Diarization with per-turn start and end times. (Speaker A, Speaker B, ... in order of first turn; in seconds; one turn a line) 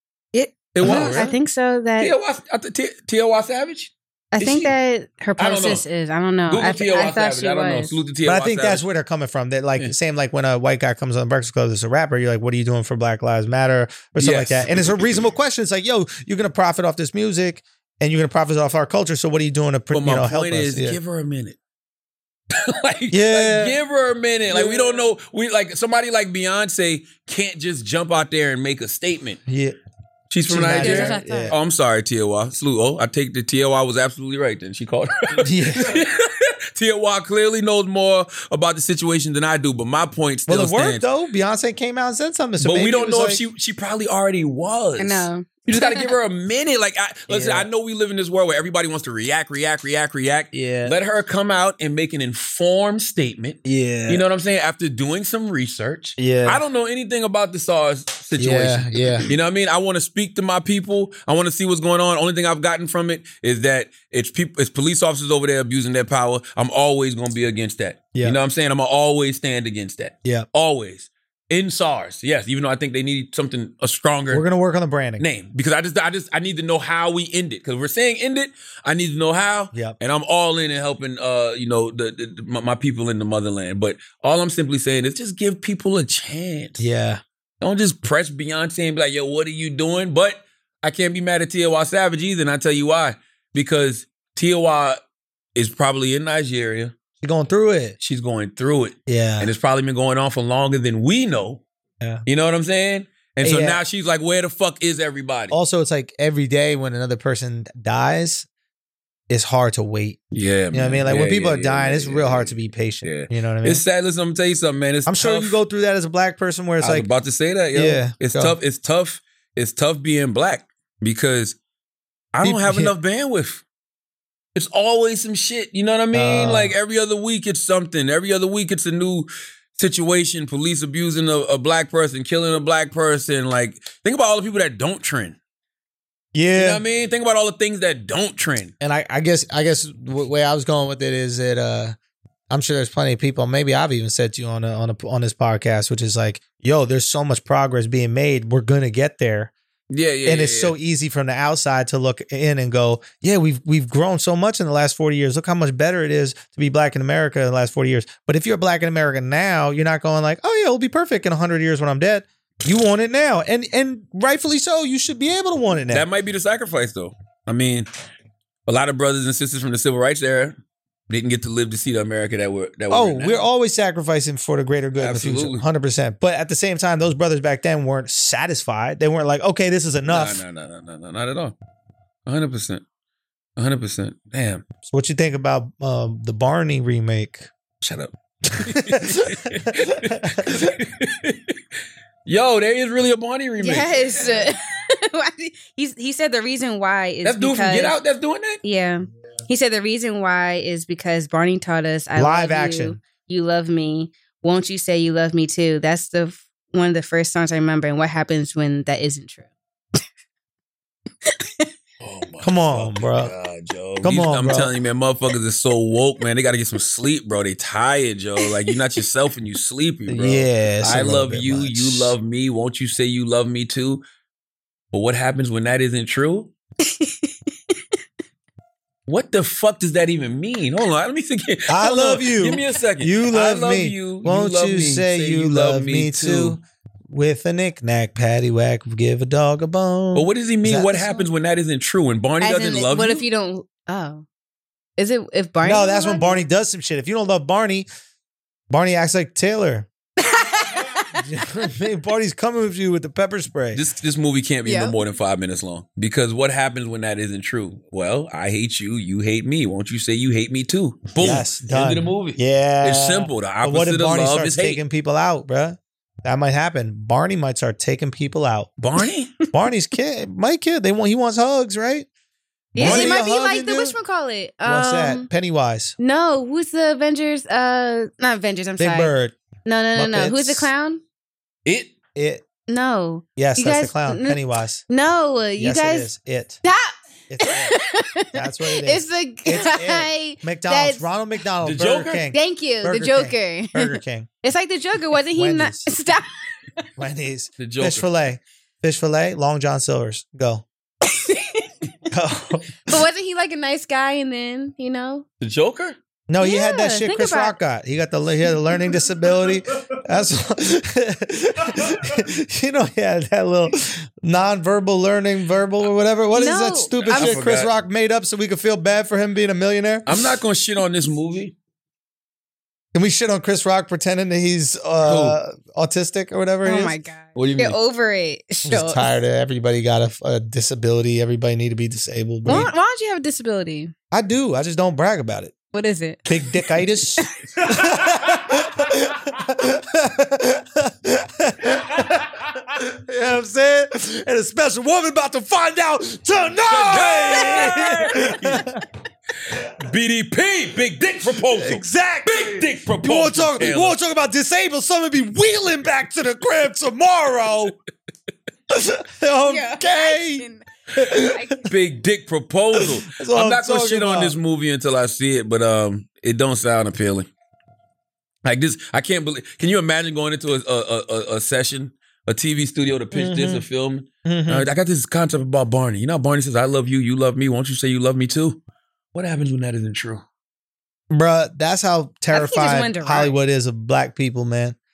Speaker A: 0.3-2.1
Speaker B: 0.7-1.3
Speaker C: 0.8-1.3
Speaker B: 2.0-4.7
Speaker A: 4.3-8.0
Speaker B: 5.4-5.8
Speaker B: 6.5-8.9
Speaker C: 8.2-21.0
Speaker B: 14.2-15.2
Speaker B: 19.9-21.6
Speaker B: 22.5-29.4
Speaker C: 23.1-23.8
Speaker C: 24.5-25.0
Speaker C: 29.5-29.8
Speaker B: 30.3-41.0
Speaker C: 30.5-31.6
Speaker A: 30.8-31.6
Speaker C: 35.4-36.0
Speaker C: 40.5-43.4
Speaker B: 42.6-74.4
Speaker A: 45.0-46.1
Speaker C: 47.3-47.7
Speaker C: 50.5-51.0
Speaker C: 53.6-54.2
Speaker C: 56.2-56.6
Speaker C: 58.4-59.3
Speaker C: 74.3-75.2
Speaker B: 75.2-86.9
Speaker C: 86.8-87.2
Speaker B: 87.6-95.0
Speaker B: 95.5-96.9
Speaker C: 97.2-98.0
Speaker B: 98.0-101.6
Speaker C: 99.1-99.5
Speaker B: 102.3-105.6
Speaker C: 103.4-103.8
Speaker C: 105.5-108.5
Speaker C: 109.3-110.2
Speaker B: 110.3-115.6
Speaker C: 110.7-113.8
Speaker C: 115.1-117.1
Speaker B: 116.8-121.6
Speaker C: 117.7-118.6
Speaker B: 122.3-123.6
Speaker C: 122.4-122.9
Speaker B: 124.5-135.4
Speaker C: 126.1-126.7
Speaker C: 136.3-136.8
Speaker B: 136.6-138.7
Speaker C: 138.8-141.9
Speaker C: 142.5-149.5
Speaker B: 149.9-150.8
Speaker C: 150.2-166.1
Speaker B: 165.9-167.9
Speaker B: 168.7-170.6
Speaker B: 171.1-173.5
Speaker C: 172.9-180.4
Speaker B: 175.0-175.7
Speaker B: 180.1-181.6
Speaker B: 182.3-182.8
Speaker B: 183.6-184.7
Speaker C: 184.9-187.5
Speaker B: 187.8-191.6
Speaker C: 188.5-190.8
Speaker B: 192.3-194.1
Speaker A: 193.6-198.0
Speaker B: 197.2-198.6
Speaker A: 198.6-209.5
Speaker C: 202.2-203.0
Speaker A: 211.3-211.7
Speaker B: 212.0-224.0
Speaker C: 212.4-213.3
Speaker C: 214.0-214.7
Speaker A: 218.4-218.7
Speaker C: 220.1-222.2
Speaker B: 224.9-226.5
Speaker A: 226.8-227.7
Speaker B: 229.1-236.6
Speaker C: 231.7-241.2
Speaker B: 240.1-243.2
Speaker A: 242.4-244.2
Speaker A: 245.0-246.4
Speaker C: 245.6-247.9
Speaker C: 248.7-249.9
Speaker A: 250.2-251.2
Speaker C: 251.1-253.8
Speaker B: 253.7-264.8
Speaker A: 254.7-254.9
Speaker C: 261.2-268.7
Speaker B: 268.8-269.3
Speaker C: 269.5-272.1
Speaker A: 272.8-275.3
Speaker C: 272.8-274.0
Speaker B: 272.8-273.1
Speaker C: 274.6-275.9
Speaker A: 276.0-279.1
Speaker C: 278.8-279.4
Speaker A: 279.7-281.0
Speaker C: 279.9-280.7
Speaker B: 281.7-281.9
Speaker C: 282.2-282.4
Speaker A: 282.7-286.1
Speaker C: 283.4-284.8
Speaker C: 285.6-286.6
Speaker A: 286.6-291.1
Speaker C: 287.3-287.8
Speaker C: 288.3-294.3
Speaker B: 291.6-292.3
Speaker A: 292.3-296.4
Speaker C: 295.4-295.9
Speaker C: 297.0-300.6
Speaker B: 297.6-298.1
Speaker A: 301.1-301.7
Speaker C: 302.1-302.7
Speaker A: 302.9-305.2
Speaker B: 305.4-306.0
Speaker C: 306.3-320.2
Speaker A: 306.4-307.6
Speaker A: 316.3-317.4
Speaker B: 317.0-317.7
Speaker B: 320.1-321.6
Speaker C: 322.9-326.9
Speaker B: 325.0-325.4
Speaker A: 326.6-329.1
Speaker B: 327.4-327.8
Speaker C: 328.6-332.7
Speaker A: 332.5-333.9
Speaker C: 334.1-335.5
Speaker A: 335.7-336.4
Speaker C: 336.3-348.8
Speaker B: 346.7-348.7
Speaker B: 349.5-354.0
Speaker C: 351.4-357.8
Speaker C: 358.7-361.6
Speaker A: 359.4-361.6
Speaker B: 361.7-367.3
Speaker C: 362.8-364.4
Speaker B: 368.4-378.6
Speaker C: 373.1-373.6
Speaker C: 374.3-374.7
Speaker B: 379.1-380.2
Speaker C: 381.1-384.8
Speaker A: 382.3-383.3